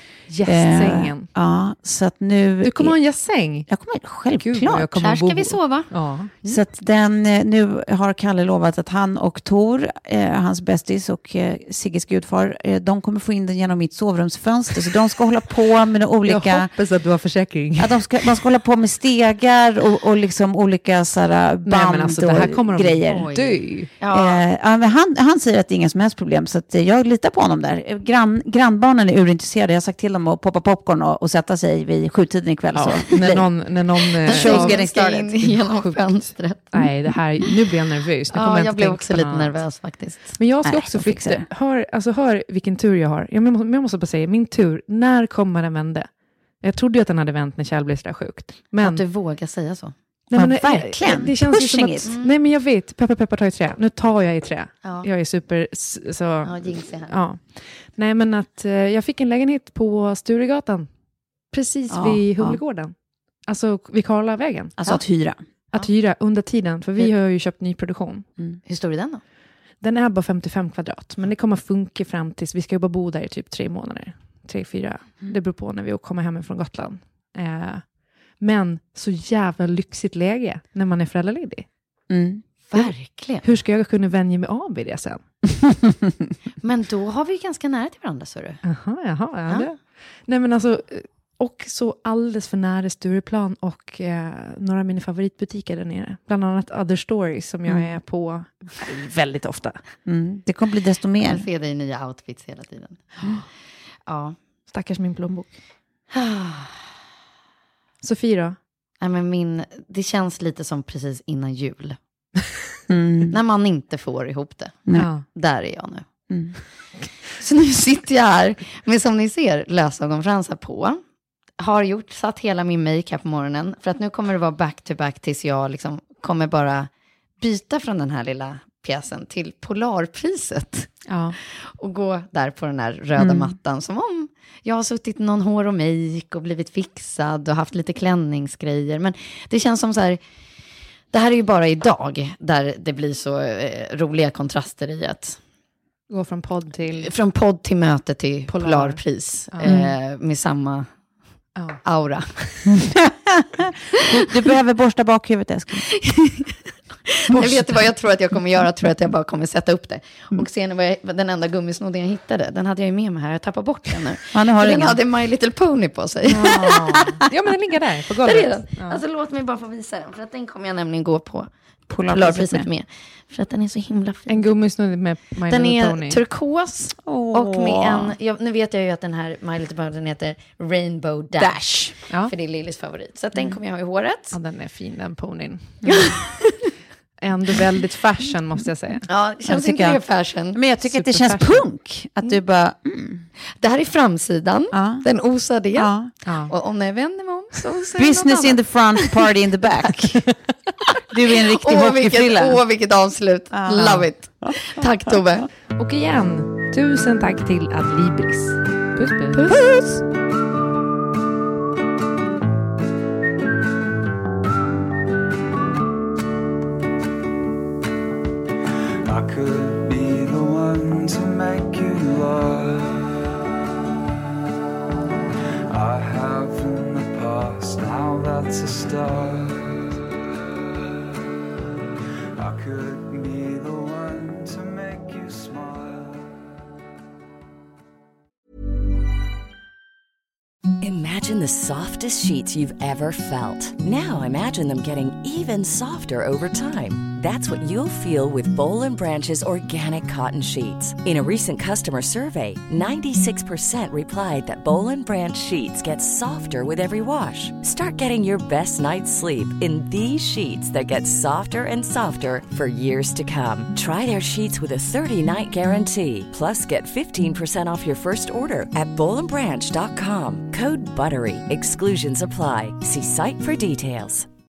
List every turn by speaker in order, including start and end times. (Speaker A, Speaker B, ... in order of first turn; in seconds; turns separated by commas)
Speaker A: 0.3-1.3, Speaker B: 0.4-3.0, Speaker A: 2.6-3.7, Speaker B: 3.7-5.0, Speaker A: 4.3-6.3, Speaker C: 5.0-6.6, Speaker B: 6.4-16.7, Speaker A: 16.2-18.2, Speaker B: 17.8-23.3, Speaker A: 21.6-23.9, Speaker C: 23.1-24.4, Speaker B: 24.1-35.5, Speaker A: 32.7-49.0, Speaker C: 34.3-36.9, Speaker C: 38.3-40.4, Speaker B: 40.6-41.5, Speaker C: 48.8-49.9, Speaker B: 50.3-52.1, Speaker A: 50.3-60.9, Speaker C: 52.0-52.3, Speaker C: 56.4-57.2, Speaker A: 61.5-64.8, Speaker B: 61.9-62.6, Speaker B: 64.8-65.4, Speaker A: 65.7-68.3, Speaker C: 68.7-69.2, Speaker A: 69.8-81.7, Speaker B: 82.1-82.4, Speaker C: 82.7-83.4, Speaker A: 82.8-85.2, Speaker C: 86.6-88.6, Speaker A: 88.6-99.8, Speaker B: 97.7-98.0, Speaker B: 100.0-101.4, Speaker C: 101.2-103.2, Speaker C: 104.0-104.3, Speaker A: 104.7-105.6, Speaker C: 106.1-106.8, Speaker A: 108.0-108.6, Speaker C: 109.0-112.0, Speaker B: 112.9-113.3, Speaker C: 113.3-116.3, Speaker A: 114.9-115.2, Speaker B: 116.3-116.5, Speaker C: 117.3-121.0, Speaker C: 121.6-140.2, Speaker A: 131.1-131.4, Speaker B: 133.2-133.5, Speaker C: 141.1-145.4, Speaker A: 146.1-147.1, Speaker C: 147.0-150.9, Speaker A: 148.5-149.7, Speaker B: 149.6-149.9, Speaker A: 151.6-151.8, Speaker C: 151.8-152.7, Speaker B: 153.0-156.0, Speaker C: 156.1-166.9, Speaker B: 157.3-157.8, Speaker B: 164.3-165.0, Speaker A: 166.3-169.0, Speaker C: 168.2-171.5, Speaker B: 171.9-172.7, Speaker C: 172.1-174.5, Speaker A: 174.3-176.2, Speaker C: 175.5-184.3, Speaker B: 177.0-178.2, Speaker B: 181.4-182.0, Speaker A: 184.3-185.9, Speaker B: 185.8-186.1, Speaker C: 185.9-186.6, Speaker A: 187.2-189.1, Speaker C: 189.1-190.6, Speaker B: 189.5-193.3, Speaker A: 190.8-191.7, Speaker C: 193.6-198.9, Speaker B: 194.7-196.1, Speaker A: 196.2-196.5, Speaker B: 198.0-200.5, Speaker B: 201.1-202.6, Speaker C: 201.5-205.5, Speaker B: 203.5-204.1, Speaker A: 203.7-204.1, Speaker A: 205.7-209.4, Speaker B: 209.5-210.0, Speaker D: 219.0-223.1, Speaker D: 225.7-230.0, Speaker D: 232.4-236.4, Speaker E: 240.8-274.3